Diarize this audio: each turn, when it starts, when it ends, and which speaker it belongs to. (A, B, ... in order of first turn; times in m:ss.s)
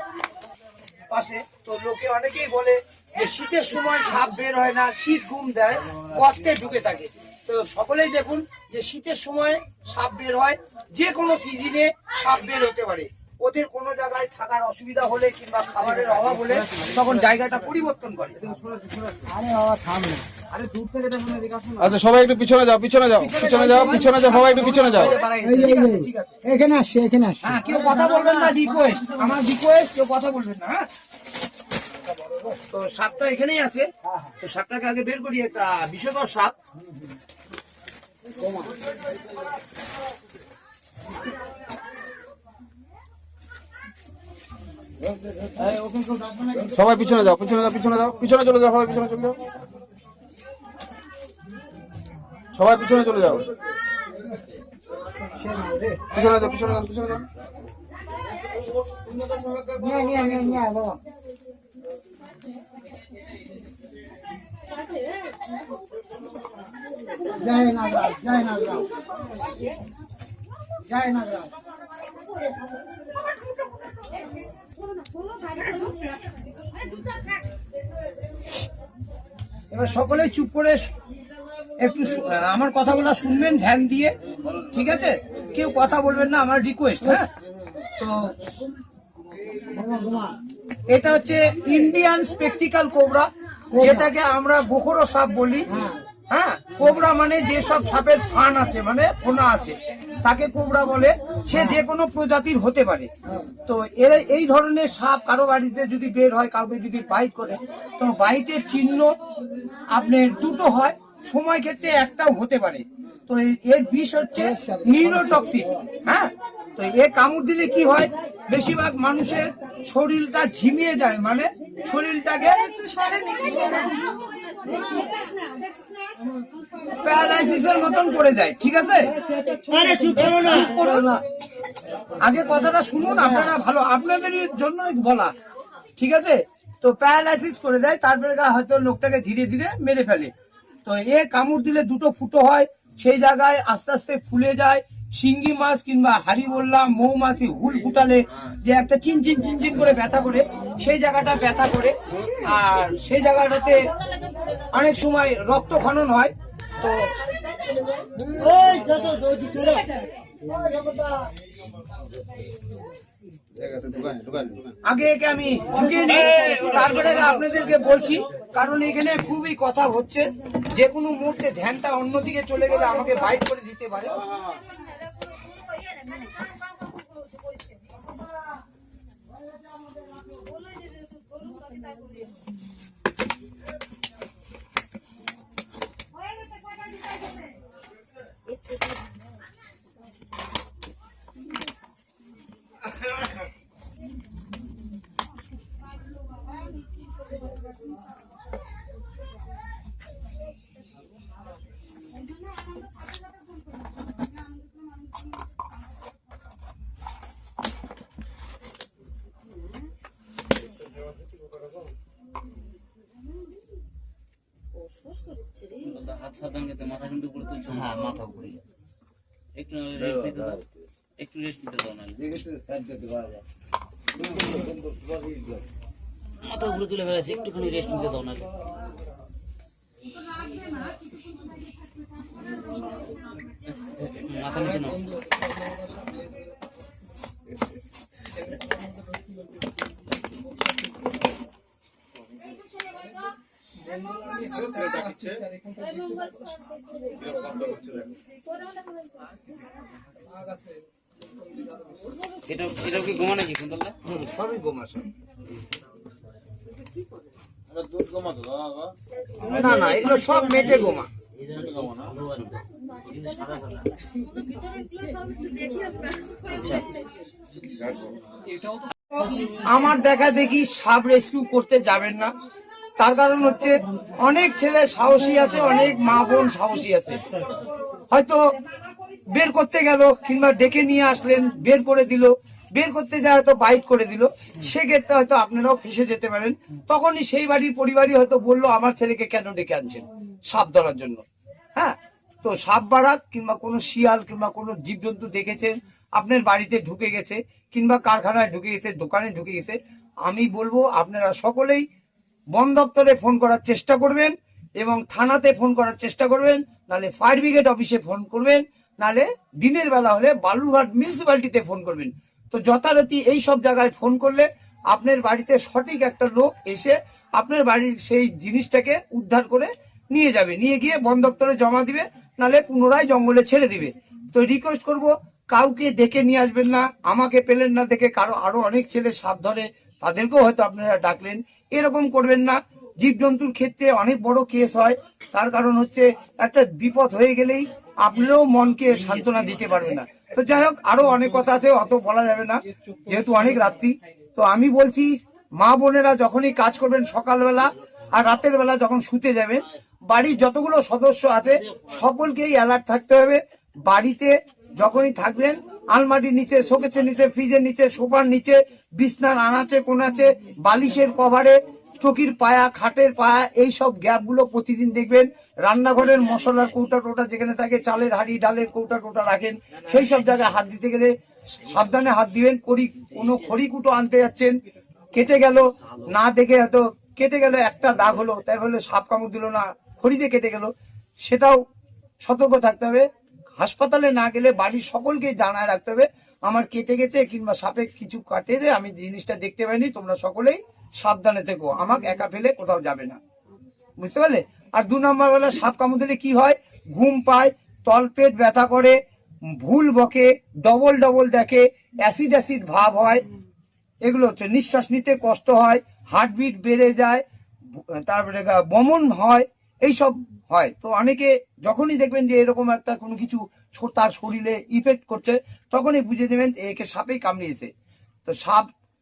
0:01.1-0:18.5 A
0:18.6-0:20.3 B
0:20.5-0:21.8 A
0:21.8-0:23.1 C
0:23.0-0:26.4 A
0:23.8-0:24.4 C
0:25.4-0:28.2 B
0:27.4-0:30.8 A
0:32.7-0:33.9 A
0:34.4-0:36.5 A
0:45.6-0:47.3 B
0:46.7-0:49.4 C
0:52.6-0:53.4 C
0:55.3-0:56.8 B
0:56.3-0:57.2 C
0:59.7-1:01.0 B
1:07.4-1:08.9 B
1:10.9-1:11.5 B
1:19.7-1:20.9 A
1:21.8-1:27.3 A
1:28.0-1:28.3 A
1:29.7-1:30.4 B
1:30.9-1:35.8 A
1:35.7-1:36.0 B
1:36.3-1:43.1 A
1:43.6-1:49.1 A
1:49.9-2:03.1 A
1:54.6-1:55.0 B
2:04.9-2:05.2 B
2:07.0-2:09.1 A
2:09.2-2:10.8 B
2:10.1-2:11.2 A
2:12.2-2:15.3 A
2:16.0-2:20.3 A
2:20.8-2:31.9 A
2:32.4-2:33.9 A
2:34.7-2:37.1 A
2:38.2-2:39.9 B
2:40.5-2:41.3 B
2:43.7-2:44.6 C
2:44.8-2:54.2 A
2:55.8-2:56.5 C
2:57.4-2:57.7 C
3:00.5-3:02.2 C
3:35.8-3:38.6 D
3:39.6-3:40.6 D
3:41.2-3:42.2 D
3:42.6-3:43.0 B
3:46.4-3:48.4 D
3:53.9-3:55.2 D
4:04.4-4:05.4 C
4:12.5-4:14.0 D
4:14.0-4:15.1 A
4:17.9-4:18.6 C
4:19.4-4:21.1 A
4:21.5-4:22.5 D
4:23.2-4:23.9 D
4:26.4-4:26.9 D
4:29.1-4:32.3 A
4:33.0-4:37.3 A
4:38.1-4:38.4 A
4:39.3-4:51.2 A
4:51.7-5:01.8 A
5:02.5-6:14.5 A
6:15.1-6:20.7 A
6:21.2-6:21.6 A
6:22.2-6:33.2 A
6:34.0-6:39.0 A
6:39.6-6:43.2 A
6:44.0-6:57.7 A
6:58.2-6:58.7 A